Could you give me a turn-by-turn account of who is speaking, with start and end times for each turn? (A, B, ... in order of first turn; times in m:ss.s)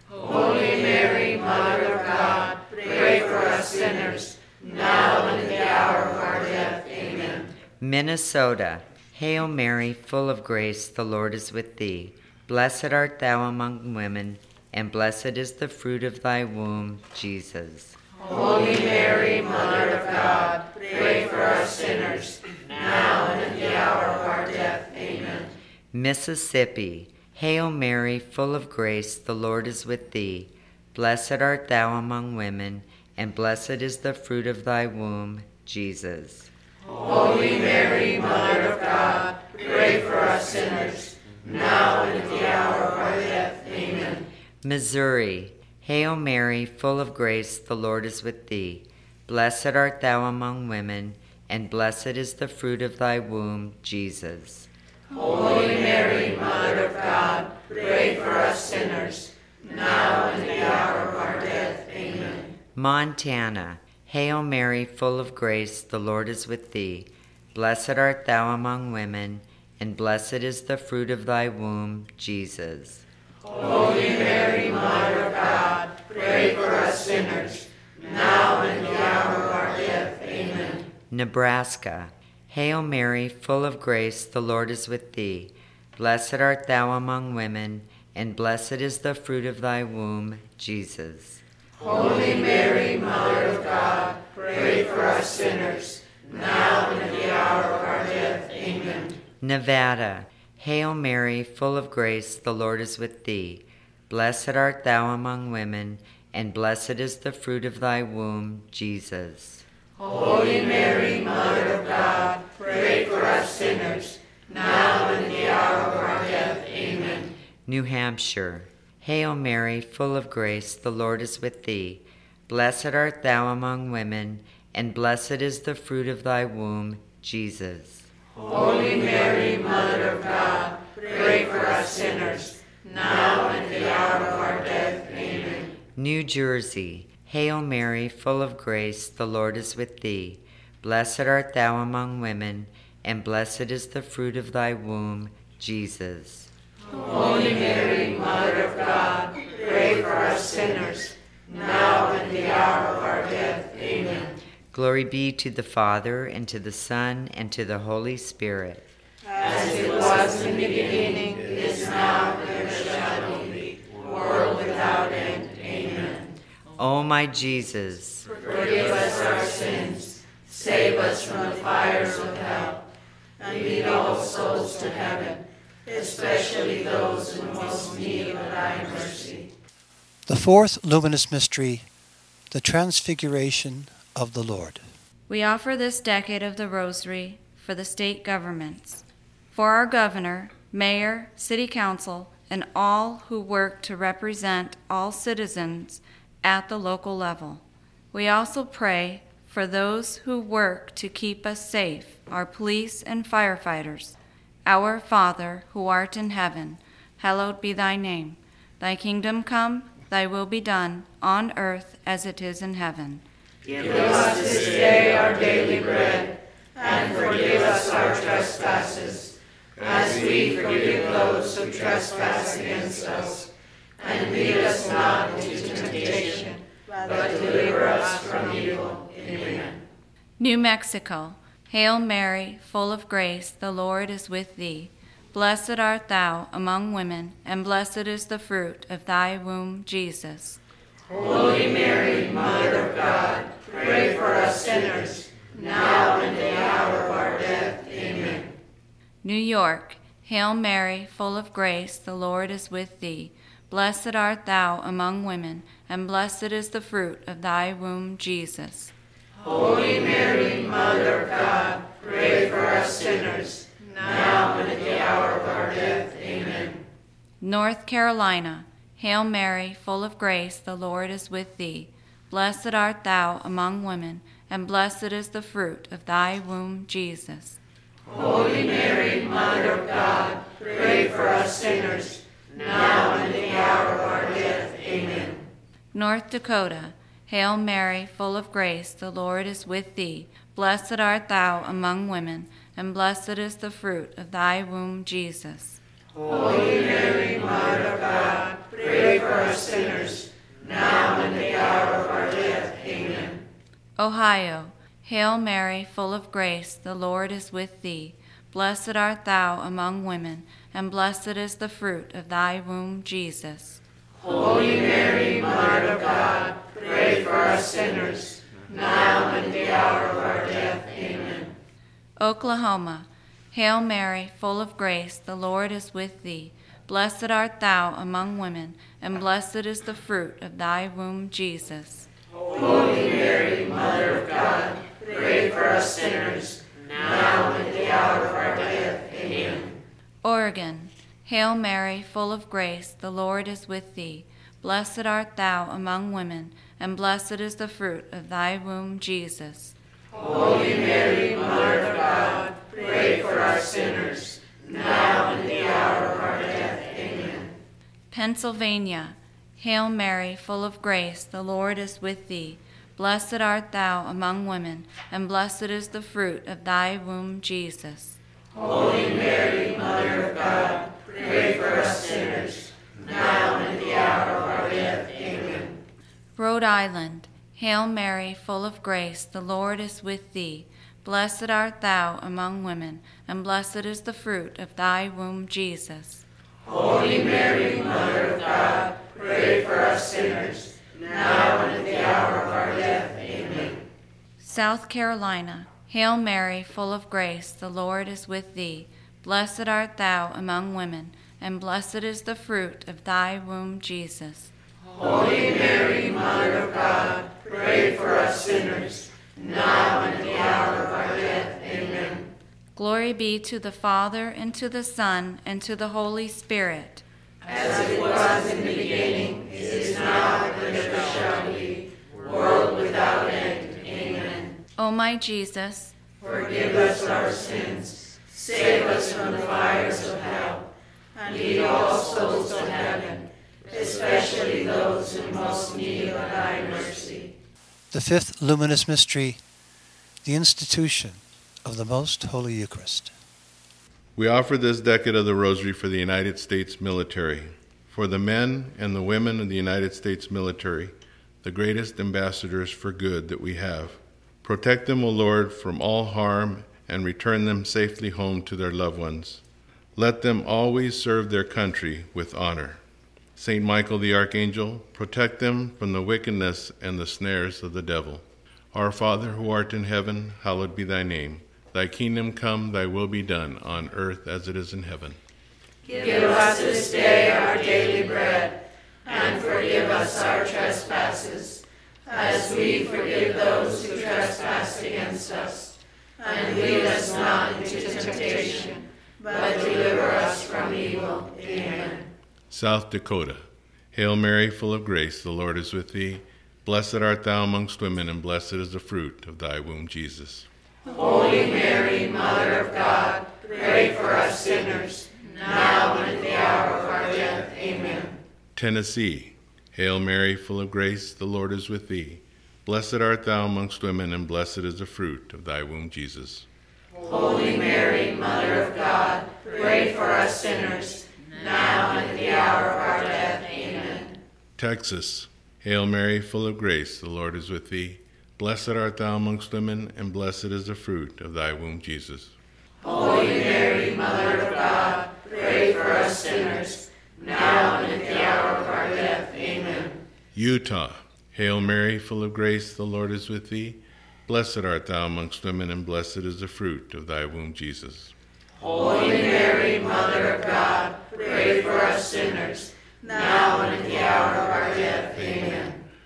0:00.2-0:07.5 A
0:07.8-0:18.0 B
0:18.2-0:25.5 A
0:25.9-0:36.5 B
0:36.9-0:44.2 A
0:44.6-0:54.7 B
0:55.1-1:02.5 A
1:02.8-1:13.0 B
1:13.5-1:20.9 A
1:21.1-1:31.4 B
1:31.8-1:39.2 A
1:39.4-1:49.6 B
1:50.0-1:57.3 A
1:57.6-2:08.1 B
2:08.4-2:15.7 A
2:16.0-2:26.5 B
2:26.9-2:34.4 A
2:34.7-2:38.9 B
2:39.4-2:46.3 A
2:46.8-2:48.3 B
2:48.4-2:52.8 A
2:53.4-2:59.5 A
3:00.2-3:01.9 C
3:02.5-3:04.8 C
3:05.3-3:33.2 D
3:33.7-3:49.8 A
3:50.4-4:00.6 D
4:01.1-4:08.5 A
4:09.2-4:18.9 D
4:19.4-4:26.8 A
4:27.4-4:37.6 D
4:38.1-4:45.4 A
4:45.9-4:55.8 D
4:56.2-5:03.4 A
5:04.0-5:13.8 D
5:14.2-5:21.6 A
5:22.2-5:32.1 D
5:32.5-5:39.8 A
5:40.2-5:49.8 D
5:50.1-5:57.5 A
5:58.1-6:08.2 D
6:08.5-6:15.8 A
6:16.4-6:26.2 D
6:26.6-6:33.8 A
6:34.4-6:44.5 D
6:44.9-6:52.3 A
6:52.8-6:57.0 D
6:57.4-7:04.6 A
7:04.8-7:06.0 D
7:06.2-7:17.3 A
7:17.9-7:19.4 C
7:20.2-7:23.1 C
7:24.1-7:39.4 E
7:40.0-7:42.8 E
7:43.4-7:55.2 E
7:55.9-8:12.1 A
8:12.5-8:20.5 E
8:20.9-8:28.2 A
8:28.6-8:36.5 E
8:37.0-8:44.2 A
8:44.6-8:52.3 E
8:52.8-9:00.0 A
9:00.4-9:08.1 E
9:08.6-9:15.8 A